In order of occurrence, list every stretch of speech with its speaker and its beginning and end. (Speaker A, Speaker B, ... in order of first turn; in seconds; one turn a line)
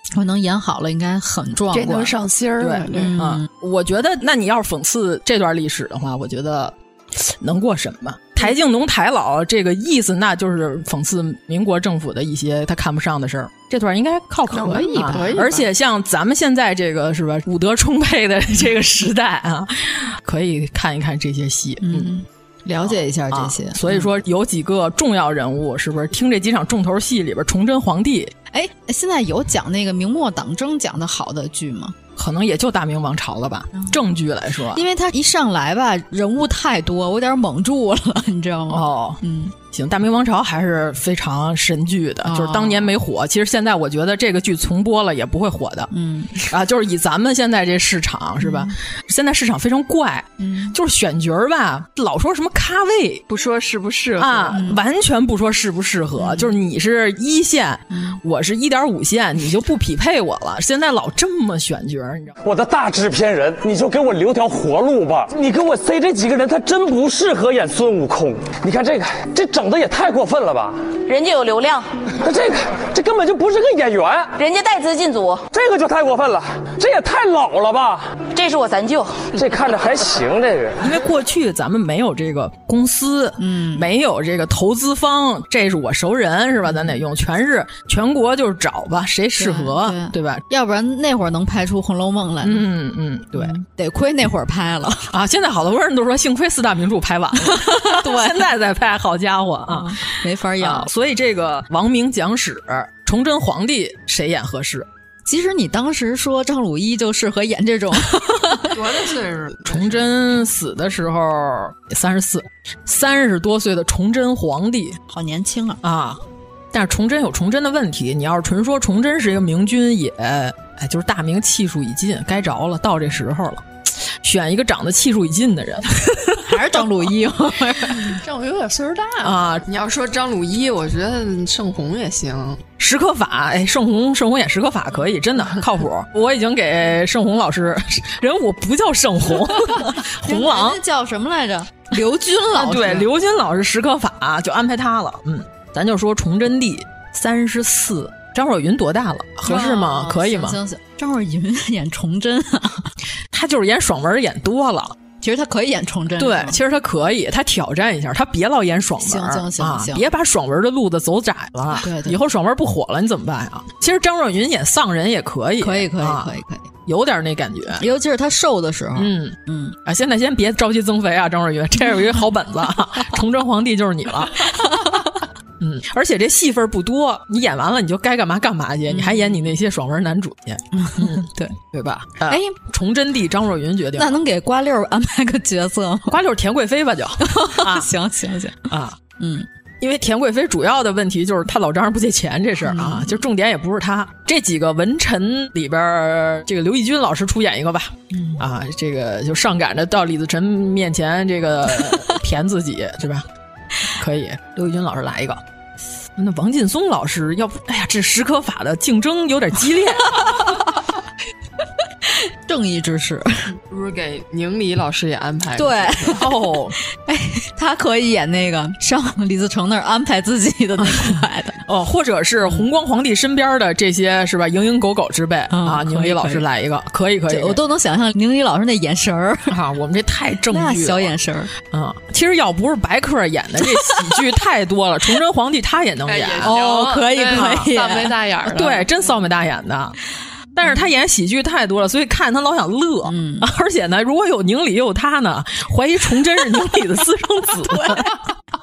Speaker A: 0.1-2.2
Speaker B: 1.7-3.1
Speaker C: 2.6-22.1
Speaker A: 2.9-3.5
Speaker B: 14.5-15.7
Speaker A: 14.7-15.4
Speaker A: 21.8-24.1
Speaker C: 22.8-28.3
Speaker A: 28.5-31.9
Speaker C: 32.1-34.8
Speaker A: 34.7-39.5
Speaker C: 38.7-53.2
Speaker A: 42.2-42.9
Speaker A: 45.9-46.4
Speaker A: 48.4-48.7
Speaker A: 50.4-50.7
Speaker B: 53.3-54.6
Speaker C: 54.2-62.3
Speaker A: 54.5-54.8
Speaker A: 56.2-56.5
Speaker A: 57.9-58.2
Speaker D: 62.4-70.9
Speaker E: 71.0-71.8
Speaker D: 72.1-74.4
Speaker E: 74.4-75.4
Speaker D: 75.5-78.2
Speaker E: 78.3-79.3
Speaker D: 79.3-80.8
Speaker C: 80.8-90.4
Speaker A: 83.4-83.9
Speaker A: 89.4-92.7
Speaker C: 92.4-93.6
Speaker A: 93.3-95.1
Speaker C: 95.1-104.9
Speaker A: 97.4-98.5
Speaker A: 99.7-100.9
Speaker A: 105.2-108.7
Speaker B: 108.7-110.1
Speaker C: 109.7-115.0
Speaker A: 115.1-115.8
Speaker C: 115.8-126.7
Speaker A: 126.4-128.2
Speaker B: 128.1-132.6
Speaker C: 129.2-129.6
Speaker C: 132.8-140.8
Speaker A: 140.2-143.1
Speaker C: 142.5-150.6
Speaker A: 149.4-152.9
Speaker C: 153.3-155.0
Speaker A: 155.2-156.6
Speaker C: 156.1-166.3
Speaker A: 159.0-160.1
Speaker A: 161.8-162.2
Speaker A: 165.6-166.7
Speaker C: 166.8-167.8
Speaker A: 167.8-169.8
Speaker C: 168.9-174.8
Speaker A: 174.6-174.9
Speaker C: 175.6-184.1
Speaker A: 178.9-179.2
Speaker A: 180.8-181.2
Speaker A: 182.3-182.5
Speaker A: 184.0-186.2
Speaker C: 186.1-187.9
Speaker A: 187.2-189.5
Speaker C: 188.7-189.0
Speaker C: 189.8-203.3
Speaker A: 192.6-193.2
Speaker A: 198.1-198.4
Speaker C: 203.8-205.4
Speaker C: 206.2-210.6
Speaker A: 212.1-213.5
Speaker B: 213.6-216.2
Speaker A: 215.5-221.6
Speaker C: 216.1-216.8
Speaker C: 221.7-227.6
Speaker A: 225.5-226.4
Speaker A: 227.3-229.5
Speaker C: 229.5-237.7
Speaker A: 230.5-231.5
Speaker A: 233.7-234.0
Speaker B: 236.1-238.9
Speaker A: 236.4-238.2
Speaker C: 238.5-240.0
Speaker C: 240.5-248.2
Speaker A: 243.0-243.5